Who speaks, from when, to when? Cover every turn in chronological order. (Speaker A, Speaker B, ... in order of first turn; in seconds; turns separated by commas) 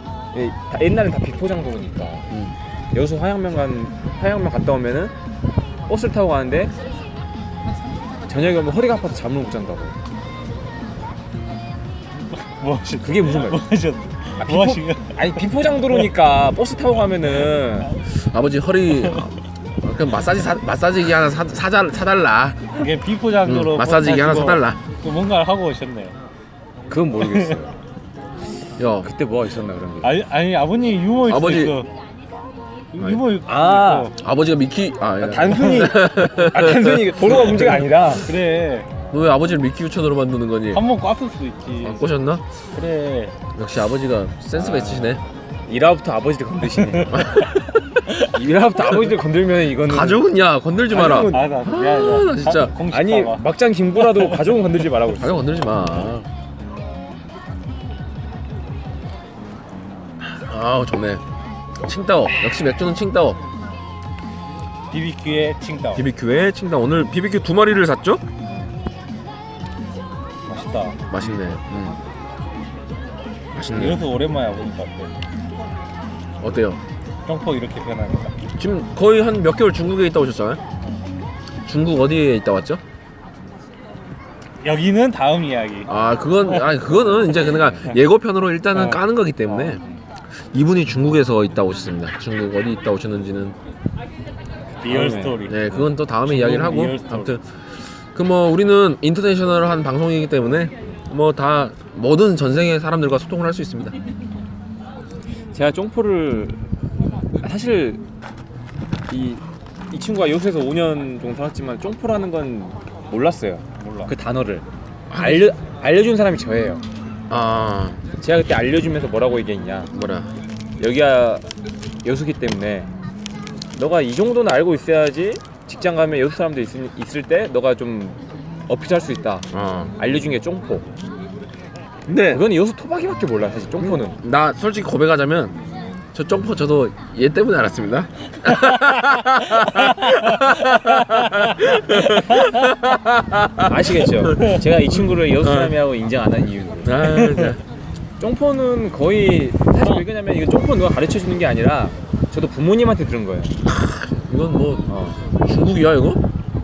Speaker A: 0.3-2.3, Speaker A: 2.9-5.1, Speaker A: 5.9-6.7, Speaker A: 8.3-10.0, Speaker B: 12.5-15.4, Speaker A: 13.0-13.6, Speaker A: 14.4-18.0, Speaker C: 18.1-22.8, Speaker B: 22.8-26.1, Speaker C: 23.4-24.8, Speaker A: 26.9-27.8, Speaker B: 27.3-27.6, Speaker C: 28.8-29.1, Speaker A: 29.0-30.2, Speaker B: 30.0-31.9, Speaker C: 31.2-31.8, Speaker B: 32.9-34.2, Speaker C: 33.0-33.2, Speaker A: 33.4-34.1, Speaker C: 34.1-37.5, Speaker A: 35.2-38.4, Speaker B: 38.2-39.1, Speaker C: 39.1-40.9, Speaker B: 40.7-42.1, Speaker C: 41.8-42.4, Speaker B: 42.7-43.4, Speaker C: 43.5-45.2, Speaker A: 44.5-47.5, Speaker C: 47.1-47.9, Speaker B: 48.1-48.4, Speaker A: 48.2-50.3, Speaker C: 49.8-52.8, Speaker B: 50.9-53.4, Speaker A: 52.8-55.6, Speaker B: 54.0-54.5, Speaker C: 55.2-56.3, Speaker C: 60.2-61.2, Speaker C: 61.8-63.4, Speaker B: 64.9-66.0, Speaker C: 65.9-68.2, Speaker B: 70.5-71.2, Speaker C: 71.1-72.0, Speaker C: 73.5-74.1, Speaker B: 73.7-75.1, Speaker C: 76.4-76.8, Speaker B: 77.2-78.3, Speaker C: 78.6-80.6, Speaker C: 81.7-82.8, Speaker B: 84.6-86.8, Speaker C: 85.9-89.8, Speaker A: 86.9-88.0, Speaker B: 88.7-90.0, Speaker C: 90.4-93.6, Speaker B: 94.8-97.3, Speaker A: 94.9-95.9, Speaker C: 95.5-104.0, Speaker A: 105.5-106.6, Speaker A: 107.4-108.0, Speaker A: 109.1-116.8, Speaker B: 113.8-114.1, Speaker C: 115.1-115.5, Speaker C: 117.3-118.0, Speaker A: 118.2-119.9, Speaker C: 119.9-120.3, Speaker A: 120.8-121.5, Speaker A: 122.0-122.9, Speaker A: 123.7-130.9, Speaker C: 129.5-129.9, Speaker C: 132.1-132.4, Speaker A: 132.3-134.2, Speaker C: 134.0-135.6, Speaker C: 136.1-144.6, Speaker B: 139.6-141.4, Speaker B: 142.0-142.6, Speaker A: 143.6-147.1, Speaker C: 145.4-145.8, Speaker C: 146.8-147.6, Speaker B: 147.1-147.6, Speaker A: 148.2-153.6, Speaker C: 153.7-154.9, Speaker A: 154.9-155.2, Speaker C: 155.5-156.2